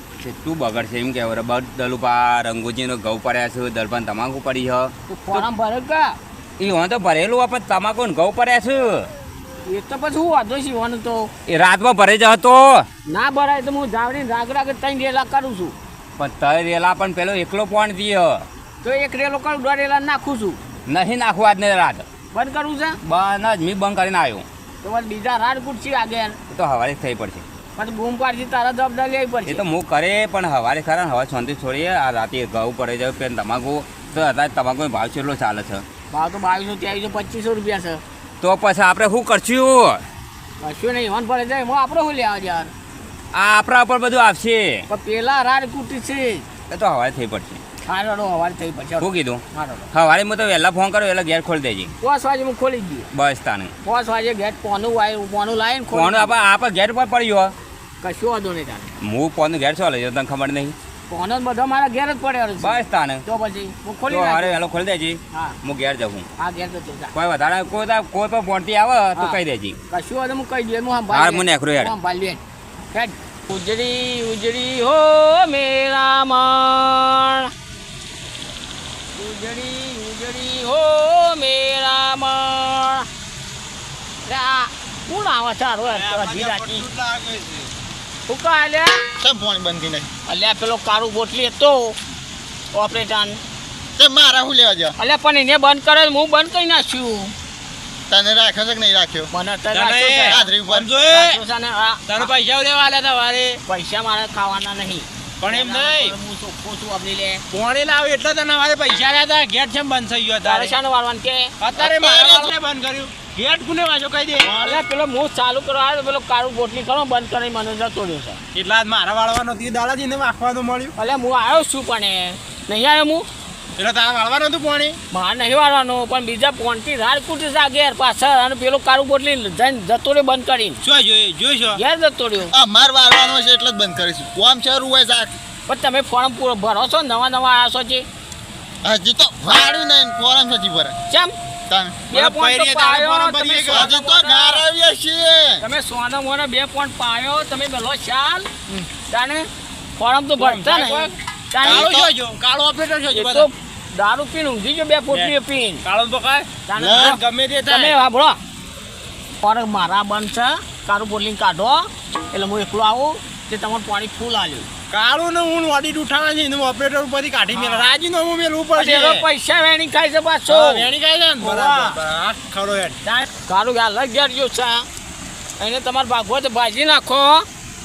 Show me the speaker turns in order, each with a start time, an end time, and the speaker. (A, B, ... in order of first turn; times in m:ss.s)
0:00.2-0:05.4 A
0:05.1-0:06.2 B
0:06.6-0:09.1 A
0:09.6-0:11.3 B
0:11.5-0:12.9 A
0:13.1-0:15.8 B
0:16.2-0:18.4 A
0:18.8-0:20.6 B
0:20.9-0:22.0 A
0:22.3-0:23.0 B
0:23.0-0:24.4 A
0:24.8-0:26.4 B
0:26.5-0:27.4 A
0:27.8-0:29.6 B
0:29.5-0:35.8 A
0:36.1-0:38.0 B
0:38.4-0:40.0 A
0:40.6-0:42.7 B
0:43.3-0:44.9 A
0:44.9-0:46.5 B
0:46.7-0:47.6 A
0:47.9-0:49.9 B
0:49.0-0:51.9 A
0:52.0-0:53.1 B
0:53.1-0:53.7 A
0:53.8-0:56.3 B
0:55.9-0:57.6 A
0:58.0-0:58.9 B
0:59.0-1:00.8 A
1:01.1-1:04.6 B
1:02.6-1:03.2 A
1:04.1-1:06.3 A
1:06.4-1:07.1 B
1:07.1-1:09.8 A
1:09.9-1:12.4 B
1:11.1-1:11.9 A
1:12.9-1:17.5 B
1:19.1-1:23.1 B
1:24.2-1:26.8 B
1:25.9-1:27.7 C
1:28.3-1:29.0 B
1:29.2-1:30.1 D
1:30.3-1:32.0 B
1:32.7-1:33.4 B
1:34.0-1:35.0 D
1:35.0-1:37.3 B
1:38.1-1:39.3 D
1:39.3-1:40.5 B
1:39.7-1:41.4 C
1:40.3-1:40.9 D
1:41.1-1:42.3 B
1:42.1-1:43.6 C
1:43.7-1:47.4 B
1:45.4-1:46.2 C
1:47.5-1:50.8 C
1:50.4-1:51.9 B
1:51.6-1:54.8 C
1:52.0-1:52.4 D
1:54.4-1:58.4 B
1:58.5-2:00.9 C
2:01.0-2:03.3 B
2:03.8-2:05.0 C
2:05.1-2:10.8 B
2:10.8-2:11.8 C
2:11.8-2:12.5 B
2:12.5-2:15.4 D
2:15.7-2:18.0 B
2:18.8-2:20.9 D
2:21.1-2:21.4 B
2:21.7-2:22.0 D
2:22.1-2:24.6 B
2:22.1-2:23.9 C
2:23.7-2:25.6 D
2:25.6-2:28.5 B
2:29.1-2:31.9 B
2:30.4-2:33.5 C
2:31.6-2:32.1 D
2:33.1-2:35.8 B
2:35.1-2:38.0 C
2:36.7-2:38.4 B
2:36.8-2:37.2 D
2:39.4-2:44.7 B
2:44.9-2:49.3 C
2:47.5-2:48.0 B
2:48.8-2:50.9 B
2:50.5-2:53.0 C
2:51.4-2:52.0 B
2:53.0-2:54.9 B
2:55.6-2:57.5 B